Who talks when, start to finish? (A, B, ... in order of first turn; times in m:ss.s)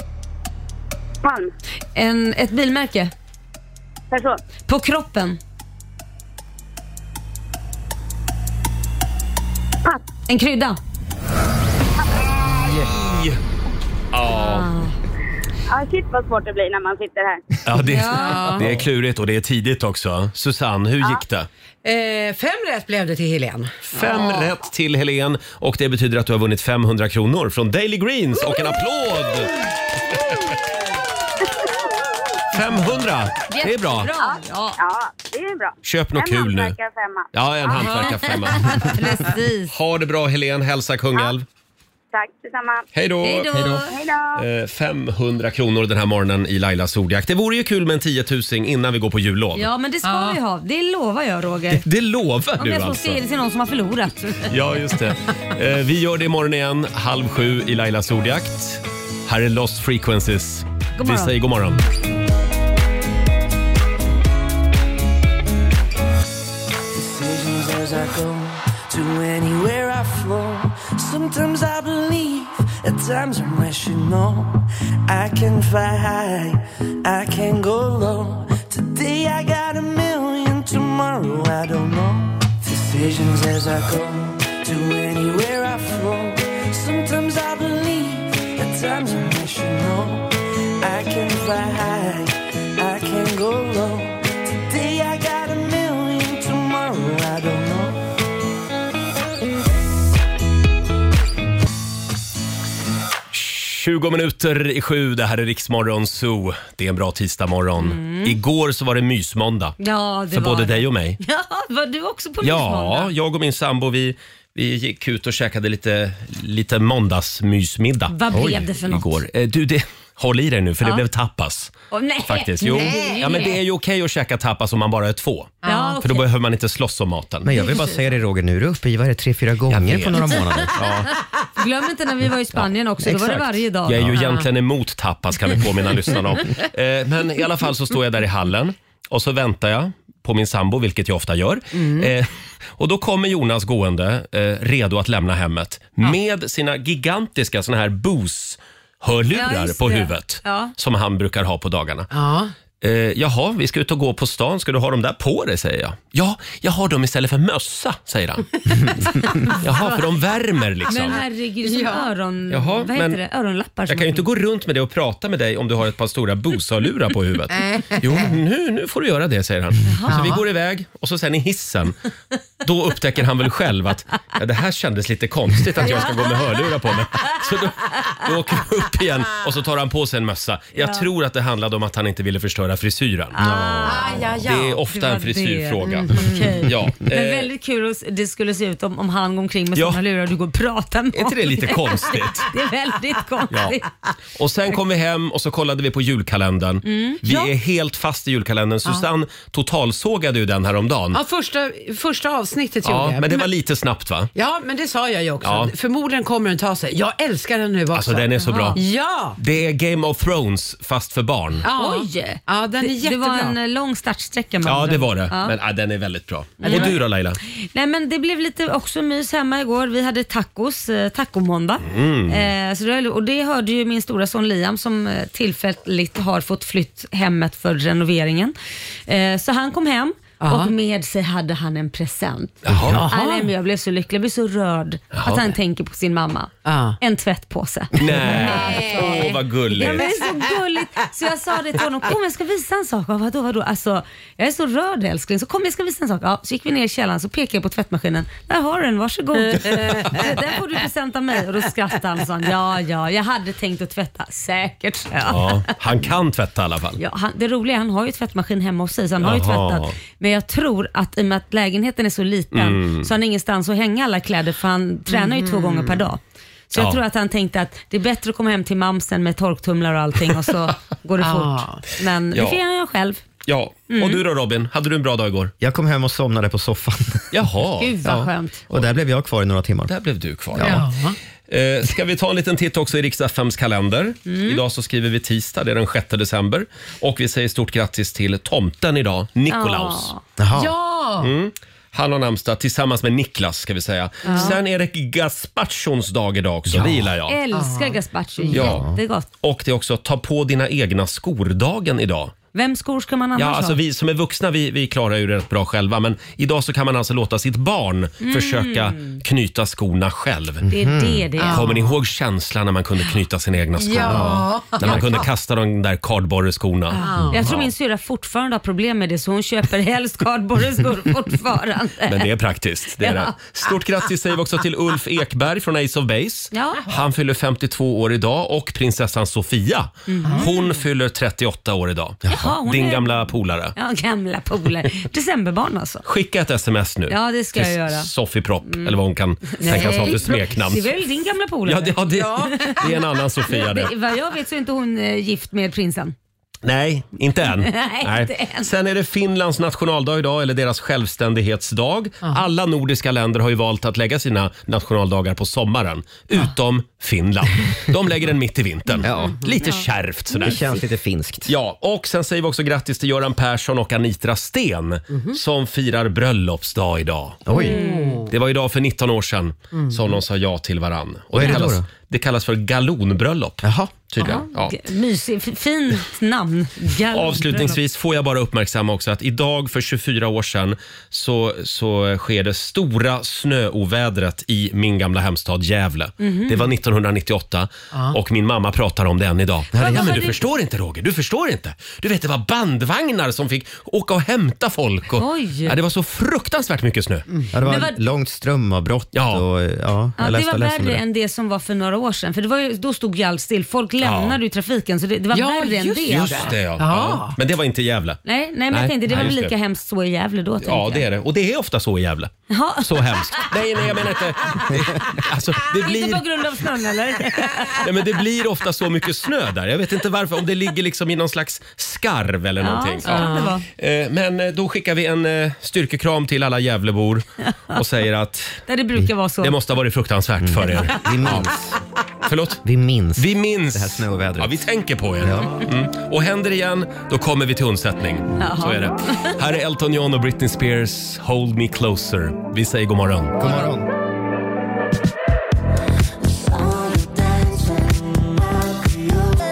0:01.2-0:01.5 A
0:01.9-0:03.1 B
0:04.1-0:04.4 A
0:04.7-0:05.4 B
0:10.3-0:10.8 B
0:12.8-0:13.4 C
0:14.1-0:14.7 C
0:14.3-0:14.9 B
0:15.7-0:17.4 A
0:17.6-0:21.5 C
0:17.8-0:18.6 B
0:18.1-0:18.8 D
0:21.8-0:24.2 D
0:23.9-0:29.5 C
0:24.0-0:24.4 B
0:32.5-0:34.1 C
0:33.5-0:34.8 B
0:34.2-0:37.9 A
0:35.8-0:36.8 C
0:37.3-0:38.9 C
0:37.8-0:39.7 B
0:39.7-0:41.4 C
0:42.1-0:42.8 A
0:42.9-0:43.8 C
0:43.2-0:44.0 B
0:43.8-0:44.4 A
0:44.4-0:49.7 C
0:49.5-0:51.8 B
0:50.0-0:50.4 D
0:51.7-0:53.2 C
0:52.6-0:54.5 B
0:54.5-1:01.8 C
1:01.0-1:01.3 B
1:06.9-1:38.1 E
1:43.3-1:49.8 C
1:47.8-1:48.4 B
1:49.8-1:53.1 B
1:50.3-1:51.2 C
1:52.4-2:01.7 C
1:58.1-1:59.2 B
1:58.3-1:58.6 F
2:01.9-2:03.5 B
2:02.3-2:07.5 C
2:02.6-2:03.5 D
2:05.6-2:06.0 D
2:05.6-2:06.2 B
2:07.4-2:10.9 F
2:07.5-2:08.0 B
2:09.7-2:11.1 C
2:11.6-2:14.0 B
2:12.5-2:14.1 F
2:13.8-2:32.1 C
2:14.2-2:14.4 D
2:21.7-2:22.1 D
2:29.3-2:30.7 B
2:32.1-2:32.5 D
2:32.8-2:41.2 C
2:39.5-2:40.0 B
2:40.9-2:44.2 B
2:40.9-2:42.1 D
2:42.5-2:43.2 C
2:43.9-2:52.0 C
2:47.6-2:48.2 D
2:49.9-2:50.2 B
2:52.6-3:07.5 C
2:55.8-2:56.2 B
3:00.8-3:01.0 B
3:03.3-3:04.2 B
3:03.4-3:04.0 F
3:03.8-3:04.8 D
3:04.9-3:13.9 B
3:05.8-3:06.6 D
3:11.1-3:12.5 C
3:14.4-3:21.2 C
3:16.8-3:17.5 B
3:21.1-3:23.5 D
3:22.8-3:24.3 C
3:24.3-3:29.4 D
3:25.4-3:25.7 C
3:27.9-3:28.8 C
3:28.4-3:28.8 B
3:29.4-3:31.6 C
3:31.6-3:33.6 D
3:31.7-3:35.5 B
3:34.6-3:37.4 C
3:36.6-3:37.0 B
3:36.6-3:37.0 D
3:37.5-3:48.5 B
3:41.8-3:42.5 C
3:49.1-4:15.8 B
3:50.4-3:50.7 D
3:52.6-3:53.0 C
3:52.8-3:53.5 D
3:55.1-3:55.5 C
3:56.6-3:57.0 D
3:58.0-4:00.1 C
3:58.2-4:00.5 D
4:09.4-4:10.4 D
4:15.2-4:17.0 C
4:17.0-4:33.2 B
4:19.2-4:20.0 C
4:22.5-4:23.1 C
4:25.1-4:26.1 D
4:26.7-4:27.0 C
4:31.2-4:31.8 D
4:32.3-4:32.6 C
4:33.4-4:35.5 C
4:33.9-4:34.2 B
4:35.6-4:37.4 F
4:37.3-4:38.0 C
4:37.8-4:38.7 B
4:38.0-4:39.9 F
4:39.9-4:40.8 C
4:40.5-4:40.8 F
4:40.6-4:41.2 D
4:41.5-4:50.1 C
4:44.3-4:44.6 B
4:49.5-4:50.2 B
4:50.4-4:50.7 F
4:50.5-4:51.3 D
4:51.2-4:57.4 C
4:54.2-4:54.6 B
4:54.3-4:54.6 D
4:56.7-4:57.1 F
4:57.3-4:59.3 B
4:57.5-4:58.6 D
4:58.5-4:58.8 C
4:58.5-4:59.0 F
4:59.4-5:02.3 C
5:02.5-5:03.8 B
5:03.4-5:10.7 C
5:08.2-5:09.2 B
5:10.6-5:11.3 F
5:10.7-5:11.6 B
5:11.4-5:11.9 D
5:11.5-5:17.7 C
5:13.8-5:15.2 D
5:14.0-5:14.5 F
5:16.9-5:17.4 D
5:17.3-5:22.3 B
5:22.1-5:33.7 C
5:23.0-5:23.3 B
5:26.5-5:26.8 B
5:30.1-5:30.5 B
5:30.2-5:30.5 D
5:32.3-5:36.0 B
5:36.0-5:40.9 C
5:37.1-5:38.1 B
5:38.7-5:39.0 B
5:39.6-5:42.9 B
5:39.6-5:40.2 D
5:41.6-5:43.9 C
5:42.1-5:42.9 D
5:43.5-5:46.1 B
5:46.6-6:00.7 C
5:47.6-5:48.7 B
5:59.0-5:59.5 F
5:59.6-6:00.5 B
6:00.4-6:01.5 F
6:01.5-6:07.4 C
6:05.1-6:05.4 D
6:07.4-6:07.8 F
6:07.5-6:08.3 D
6:07.5-6:08.2 B
6:08.3-6:14.8 C
6:09.7-6:10.2 D
6:11.3-6:11.8 F
6:13.6-6:13.9 F
6:14.2-6:17.8 B
6:17.1-6:37.2 C
6:26.2-6:26.7 B
6:29.7-6:30.2 F
6:29.8-6:30.4 B
6:35.2-6:35.8 B
6:37.5-6:41.0 F
6:37.6-6:38.0 B
6:39.1-6:39.4 C
6:40.2-6:46.5 B
6:44.0-6:44.4 C
6:45.3-6:47.4 D
6:46.1-6:48.2 C
6:48.2-6:51.0 B
6:48.7-6:49.5 C
6:50.6-6:56.2 C
6:52.5-6:53.5 B
6:54.4-6:54.7 B
6:55.7-6:57.9 B
6:57.7-7:08.6 C
7:02.6-7:03.6 B
7:03.0-7:03.6 D
7:07.4-7:07.8 B
7:08.7-7:09.5 B
7:09.4-7:11.5 C
7:10.4-7:11.8 F
7:12.2-7:12.6 C
7:12.6-7:14.7 F
7:13.2-7:23.4 C
7:15.2-7:15.6 F
7:18.4-7:19.4 B
7:23.4-7:23.9 F